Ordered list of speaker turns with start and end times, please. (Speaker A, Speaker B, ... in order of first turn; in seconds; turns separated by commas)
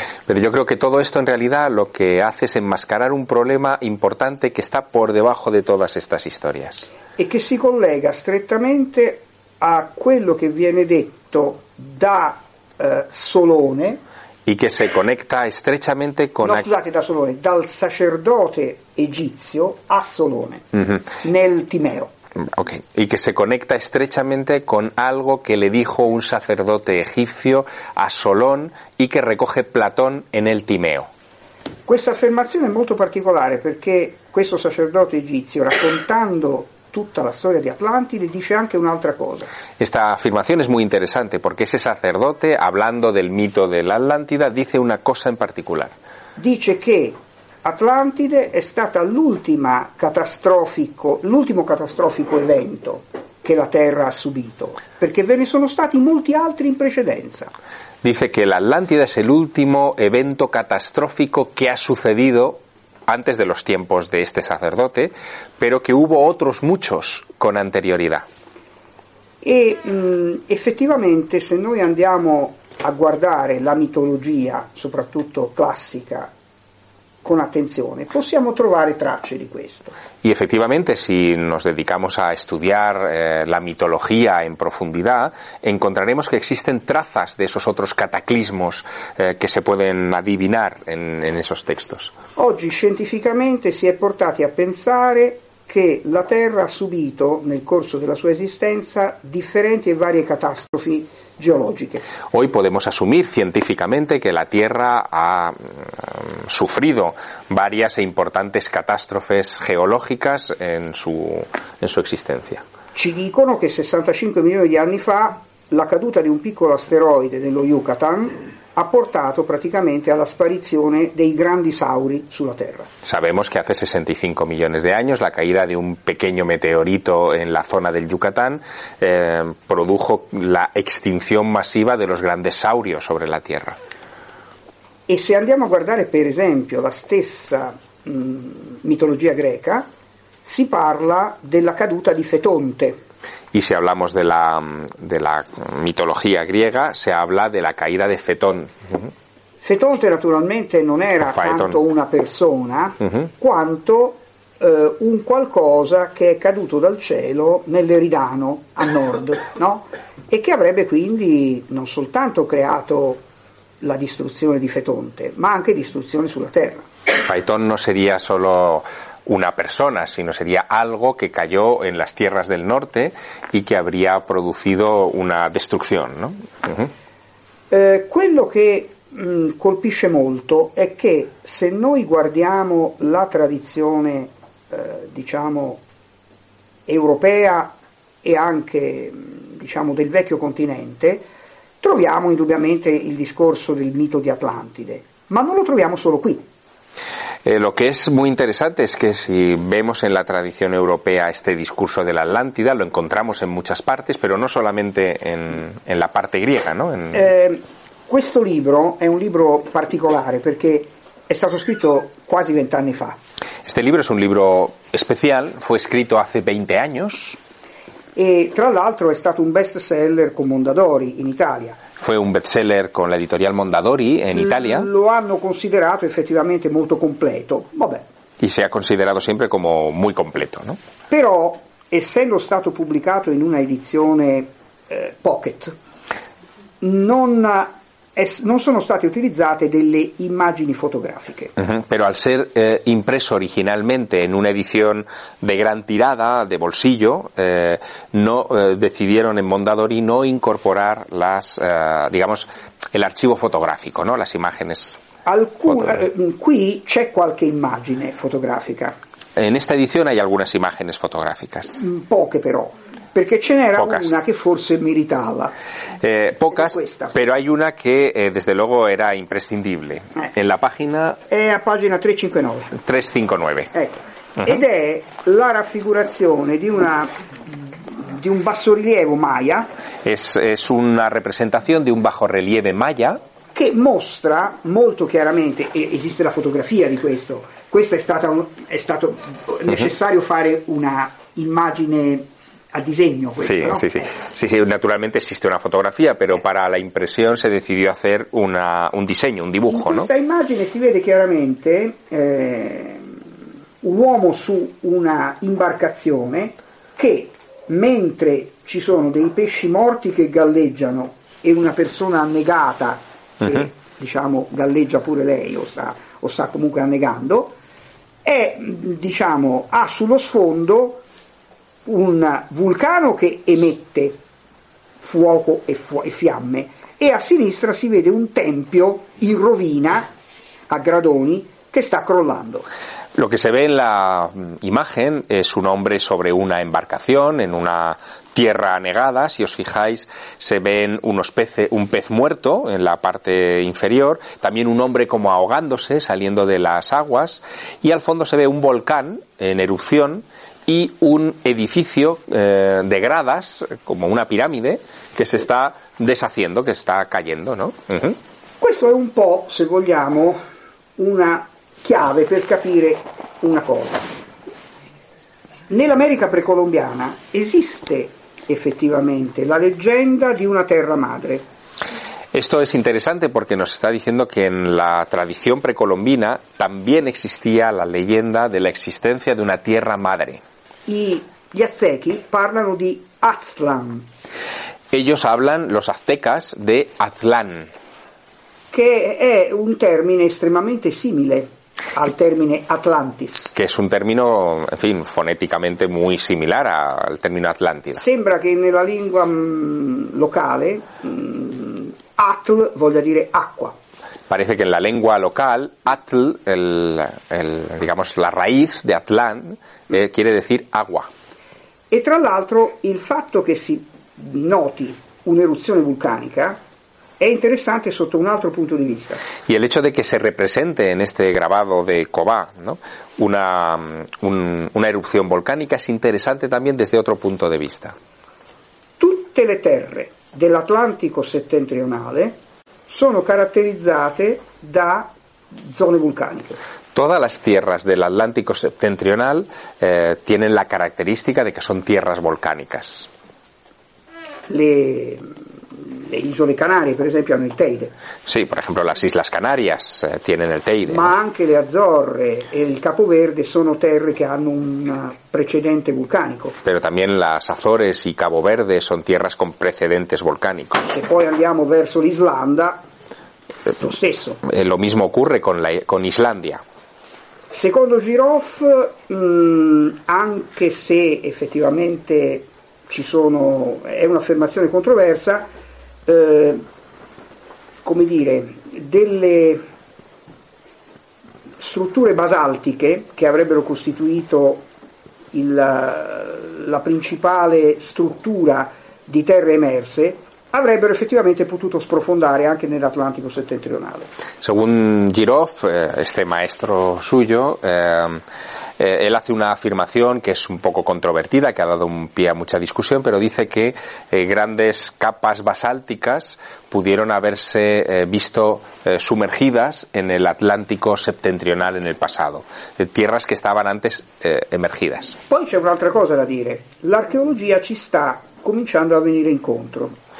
Speaker A: 0.3-6.9, Speaker B: 7.2-14.0, Speaker A: 14.4-16.7, Speaker B: 16.4-20.6, Speaker B: 21.2-22.1, Speaker A: 22.4-31.1, Speaker B: 31.9-39.5, Speaker A: 39.8-45.9, Speaker B: 46.4-57.5, Speaker A: 58.0-68.2, Speaker B: 69.4-76.3, Speaker B: 77.2-80.0, Speaker A: 80.2-92.1, Speaker B: 92.3-102.0, Speaker A: 102.3-112.6, Speaker B: 112.9-122.9, Speaker A: 123.0-133.8, Speaker B: 135.1-139.9, Speaker B: 140.4-143.0, Speaker A: 143.5-149.1, Speaker B: 149.6-163.2, Speaker A: 151.3-151.8, Speaker B: 163.8-166.8, Speaker A: 167.2-176.9, Speaker B: 177.7-185.8, Speaker B: 186.9-191.2, Speaker B: 191.8-196.4, Speaker A: 197.4-207.2, Speaker B: 207.1-213.2, Speaker A: 213.7-217.4, Speaker B: 218.2-221.8, Speaker A: 222.0-224.9, Speaker B: 224.3-228.0, Speaker A: 228.4-230.8, Speaker B: 231.1-235.7, Speaker B: 236.8-241.5, Speaker A: 241.6-255.0, Speaker B: 255.2-258.9, Speaker A: 259.4-261.8, Speaker B: 261.8-265.5, Speaker A: 263.8-264.1, Speaker A: 266.0-271.2, Speaker B: 266.5-267.1, Speaker B: 271.3-272.8, Speaker A: 272.7-273.7, Speaker B: 273.7-279.7, Speaker A: 280.0-283.2, Speaker B: 283.5-294.1, Speaker A: 293.4-300.1, Speaker B: 299.7-303.2, Speaker B: 303.8-317.6, Speaker B: 318.2-321.0, Speaker B: 321.9-324.2, Speaker B: 325.0-330.1, Speaker B: 330.7-332.6, Speaker A: 333.1-358.2, Speaker B: 358.6-360.4, Speaker B: 361.0-364.2, Speaker B: 365.7-371.4, Speaker A: 372.3-380.4, Speaker B: 380.9-384.1, Speaker A: 384.9-387.7, Speaker B: 388.7-393.5, Speaker A: 393.5-398.0, Speaker B: 397.9-403.8, Speaker A: 404.3-411.1, Speaker B: 411.9-416.6, Speaker B: 417.2-419.2, Speaker A: 419.5-427.9, Speaker B: 429.0-432.4, Speaker B: 432.9-436.6, Speaker A: 436.9-443.1, Speaker B: 444.5-447.9, Speaker A: 448.3-451.1, Speaker B: 450.9-456.6, Speaker A: 456.6-460.9, Speaker B: 460.9-462.8, Speaker B: 463.8-464.4, Speaker A: 464.4-466.6, Speaker B: 467.5-475.5, Speaker B: 476.1-476.6, Speaker B: 477.8-479.6, Speaker B: 481.6-484.6, Speaker B: 485.3-494.1, Speaker A: 494.4-498.2, Speaker A: 498.8-515.2, Speaker B: 515.3-520.0